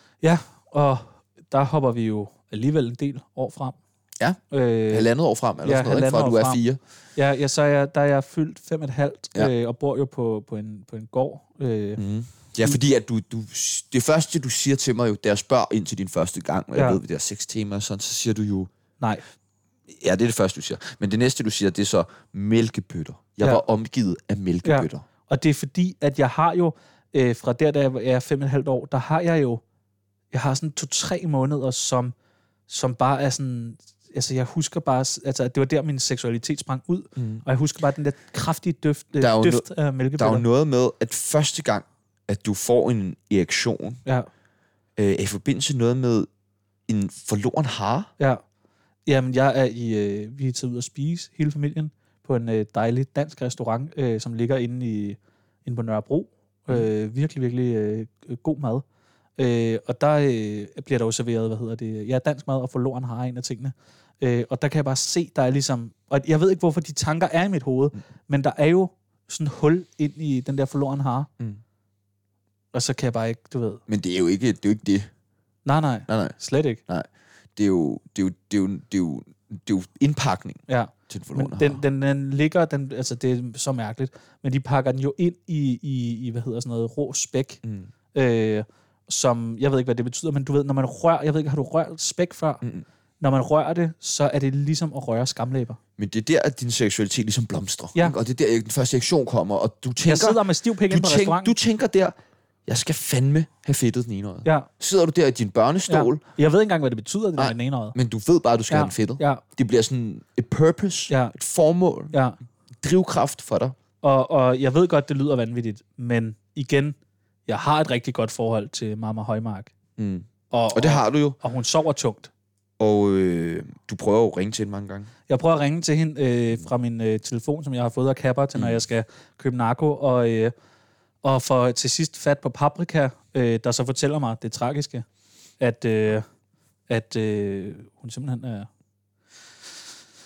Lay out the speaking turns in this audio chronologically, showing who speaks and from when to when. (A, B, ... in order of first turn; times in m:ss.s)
0:00.2-0:03.8 A
0:04.5-0:05.1 A
0:04.9-0:06.8 B
0:05.6-0:06.6 A
0:07.2-0:12.0 A
0:12.0-0:18.7 B
0:16.7-0:17.0 A
0:19.9-0:25.0 B
0:24.6-0:29.6 A
0:30.3-0:32.1 A
0:32.7-0:40.4 A
0:37.2-0:37.4 B
0:39.2-0:44.0 B
0:45.0-0:46.3 B
0:46.9-0:48.1 B
0:49.0-0:58.8 A
0:59.4-1:11.3 A
1:12.7-1:13.8 A
1:13.9-1:15.1 B
1:15.6-1:16.8 A
1:16.1-1:16.3 B
1:16.9-1:21.8 B
1:20.7-1:27.6 A
1:27.6-1:27.9 B
1:28.1-1:32.6 A
1:33.2-1:35.8 A
1:36.0-1:42.1 B
1:40.0-1:41.5 A
1:42.7-1:46.2 B
1:45.9-1:47.9 A
1:47.4-1:52.1 B
1:48.7-1:49.4 A
1:51.1-1:51.3 A
1:52.1-1:52.4 A
1:52.8-1:53.8 B
1:54.0-1:57.0 A
1:57.5-1:59.7 A
2:00.0-2:01.4 B
2:00.5-2:02.3 A
2:02.8-2:05.1 B
2:05.3-2:10.5 A
2:08.5-2:08.8 B
2:11.2-2:15.0 A
2:15.6-2:16.2 A
2:16.9-2:18.7 A